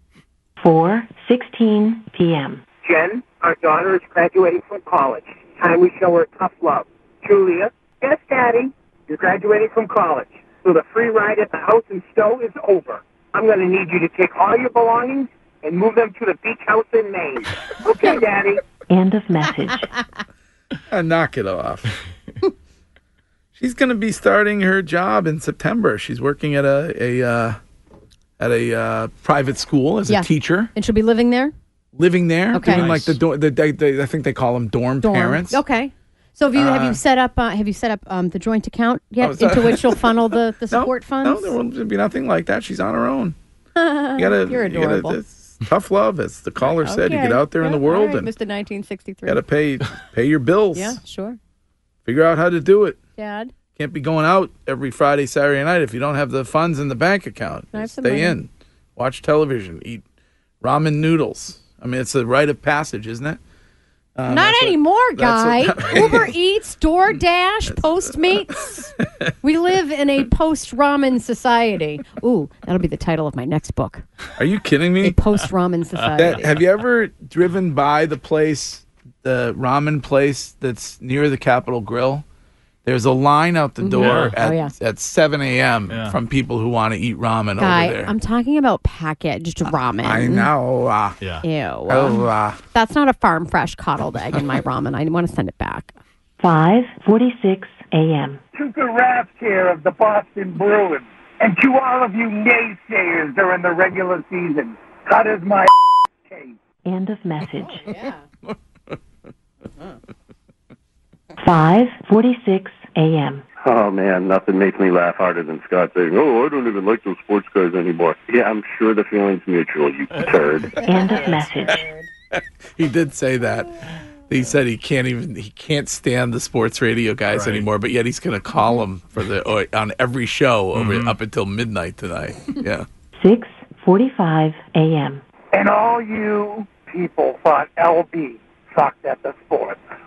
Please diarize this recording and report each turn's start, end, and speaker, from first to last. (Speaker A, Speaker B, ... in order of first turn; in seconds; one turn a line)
Speaker A: 0.6-2.6
Speaker B: 2.8-18.6
Speaker A: 18.9-19.8
Speaker C: 20.9-21.9
Speaker C: 23.6-27.6
Speaker C: 28.4-30.7
Speaker D: 30.1-31.5
Speaker C: 32.0-35.6
Speaker D: 32.5-32.9
Speaker D: 35.0-41.5
Speaker C: 36.5-37.0
Speaker C: 39.2-43.4
Speaker D: 43.8-45.2
Speaker C: 44.2-48.3
Speaker D: 46.6-49.4
Speaker C: 49.3-51.0
Speaker D: 50.8-51.4
Speaker C: 52.0-53.0
Speaker D: 53.2-53.5
Speaker C: 53.7-60.0
Speaker D: 57.7-58.3
Speaker C: 60.6-63.4
Speaker C: 64.2-66.3
Speaker D: 64.3-68.9
Speaker C: 67.7-68.9
Speaker D: 69.4-74.0
Speaker C: 74.4-75.2
Speaker D: 75.0-76.6
Speaker E: 75.9-76.2
Speaker C: 76.2-82.2
Speaker C: 82.8-88.2
Speaker D: 83.8-84.7
Speaker E: 84.0-84.4
Speaker E: 85.9-86.2
Speaker D: 87.6-90.5
Speaker C: 89.6-91.3
Speaker E: 91.2-91.5
Speaker D: 91.4-95.9
Speaker C: 91.9-92.6
Speaker A: 96.4-98.4
Speaker B: 98.5-105.7
Speaker B: 106.3-106.5
Speaker A: 106.9-107.9
Speaker D: 107.6-108.1
Speaker A: 111.4-113.4
Speaker F: 113.6-120.7
Speaker A: 120.8-121.7
Speaker C: 122.3-123.7
Speaker C: 124.3-132.9
Speaker E: 127.3-127.7
Speaker E: 130.7-131.2
Speaker A: 133.2-135.2
Speaker B: 135.5-139.8